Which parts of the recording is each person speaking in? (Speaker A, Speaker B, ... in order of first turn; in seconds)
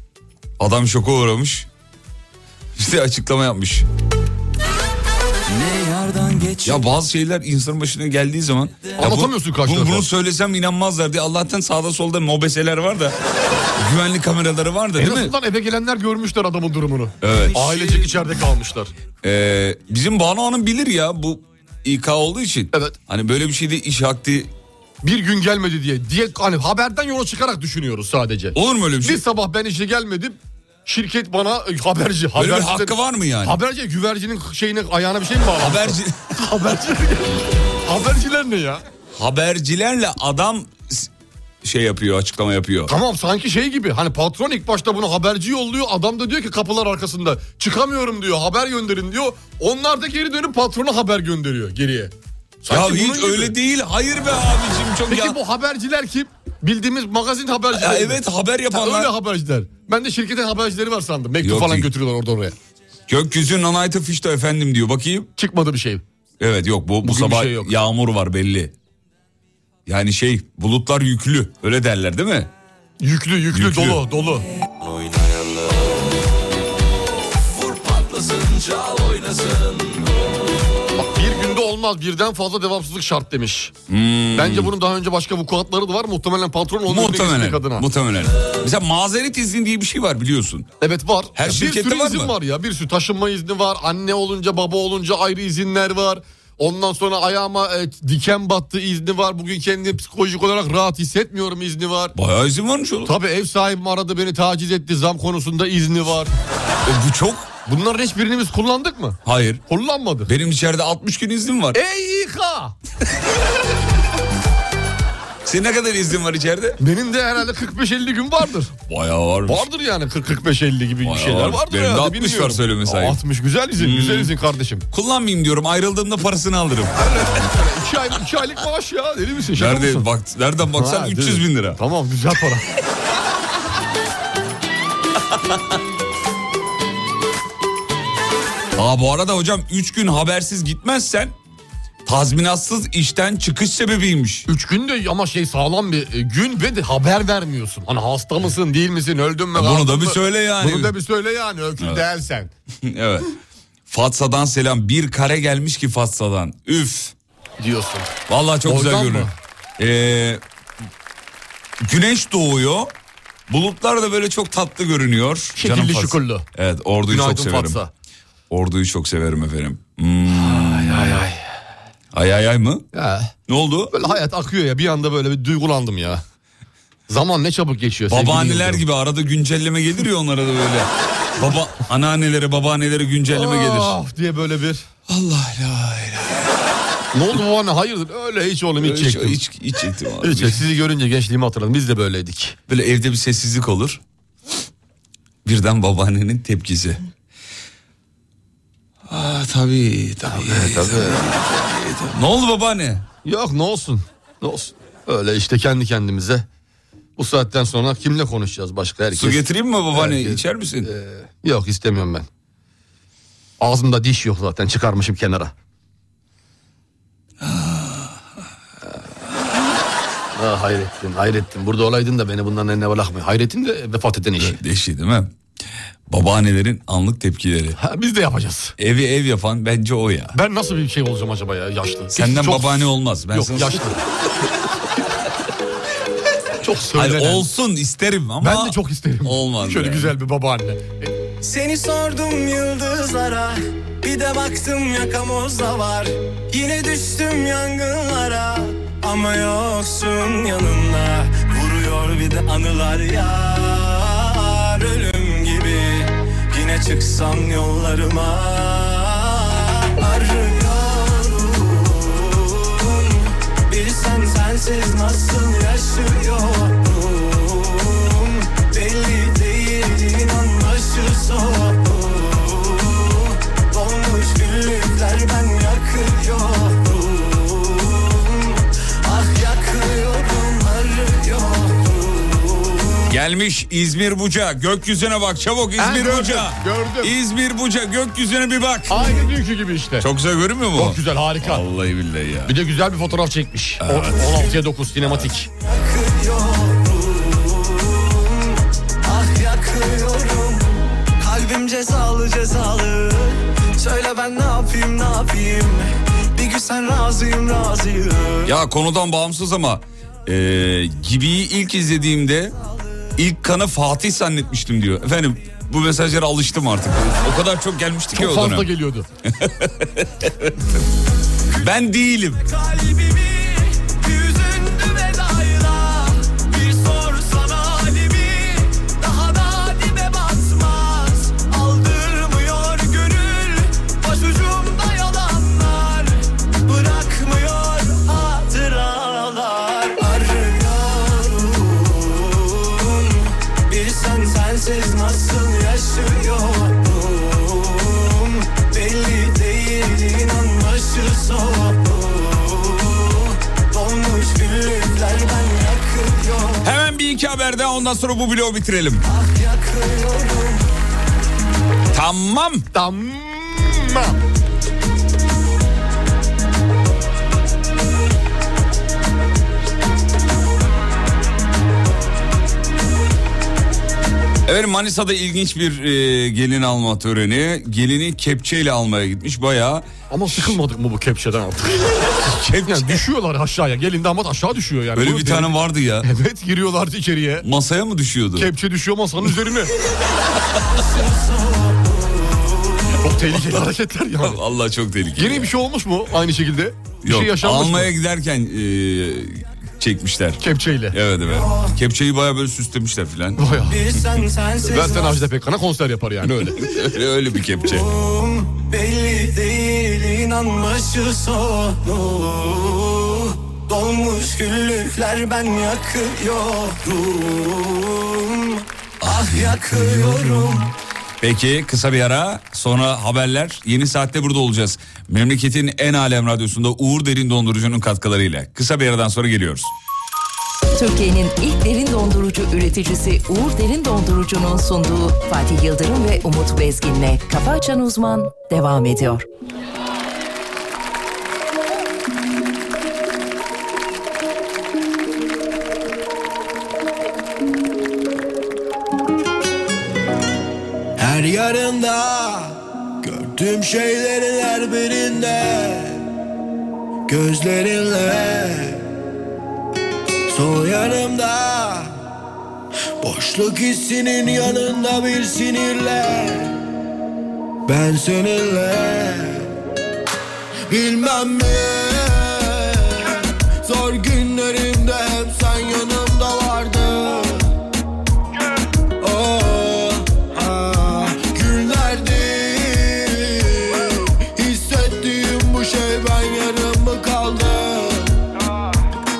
Speaker A: 0.6-1.7, 2.8-3.9, 6.6-13.1, 13.8-15.3, 17.2-18.1, 19.2-24.5, 28.6-29.2, 32.4-33.5, 35.6-36.3, 39.2-41.1, 41.6-42.9, 52.7-55.4, 57.7-59.1, 61.4-61.9, 63.1-65.3, 66.4-68.7, 69.9-72.5, 73.5-74.0, 83.9-84.7, 86.9-90.7, 91.4-92.3, 102.2-103.1, 106.8-107.5, 109.3-109.6, 110.3-111.8, 115.4-116.8, 118.9-119.7, 121.0-123.2, 123.8-124.3, 124.9-126.9, 129.6-131.8, 138.8-141.3, 142.1-144.4, 149.6-150.9, 152.8-153.3, 153.9-157.1, 158.3-160.4, 161.8-162.9, 163.5-167.8, 168.5-171.2, 172.1-172.9, 173.5-173.9, 178.1-183.9, 185.1-186.4, 188.8-190.6, 192.7-194.0, 195.4-197.0, 199.1-203.1, 209.1-210.9, 217.4-218.1, 224.4-225.3, 226.1-227.8, 228.8-230.4, 232.1-233.9, 236.9-240.1, 283.1-289.2, 290.0-292.5, 293.8-294.5, 308.4-312.6, 313.2-318.7, 319.3-320.6, 321.6-322.4, 356.6-359.0, 361.9-362.6, 374.4-380.6, 382.2-383.0, 384.9-386.1, 387.4-388.5, 394.2-395.5, 397.0-403.5, 406.6-407.9, 419.0-420.6, 421.2-429.7
Speaker B: 5.5-6.9, 74.9-75.7, 77.5-80.0
Speaker C: 9.0-10.1, 15.0-18.9, 25.0-38.8, 42.9-52.1, 52.6-53.5, 55.1-58.2, 58.7-62.5, 65.4-66.0, 67.0-67.7, 73.0-74.4, 81.0-83.7, 84.3-87.9, 90.8-102.1, 103.0-106.3, 107.7-110.3, 111.7-112.7, 116.8-118.7, 119.5-124.8, 127.0-130.1, 130.6-132.7, 144.5-152.5, 157.6-158.1, 158.6-159.3, 165.6-166.4, 167.1-167.9, 170.4-171.4, 172.9-173.3, 173.9-176.2, 177.1-178.8, 183.3-184.8, 187.1-189.4, 190.2-192.6, 200.3-201.2, 203.2-206.4, 207.2-212.3, 213.6-215.5, 220.3-224.6, 227.8-228.7, 230.3-234.0, 236.6-237.5, 238.4-241.1, 285.8-287.1, 288.9-290.1, 290.7-291.6, 292.4-295.5, 318.1-319.1, 362.7-364.2, 380.1-387.4, 388.4-389.7, 393.0-394.4, 395.1-397.9, 400.4-401.0, 403.4-403.8, 404.7-406.7
Speaker D: 241.4-283.1, 295.6-308.5, 322.5-356.8, 359.1-360.8, 390.7-393.1, 401.2-401.8, 403.6-405.2, 407.6-420.7
Speaker E: 430.7-439.2
Speaker F: 451.0-456.0, 457.1-458.8, 460.3-461.9, 463.0-466.6, 467.6-469.5, 470.7-477.5, 479.0-488.2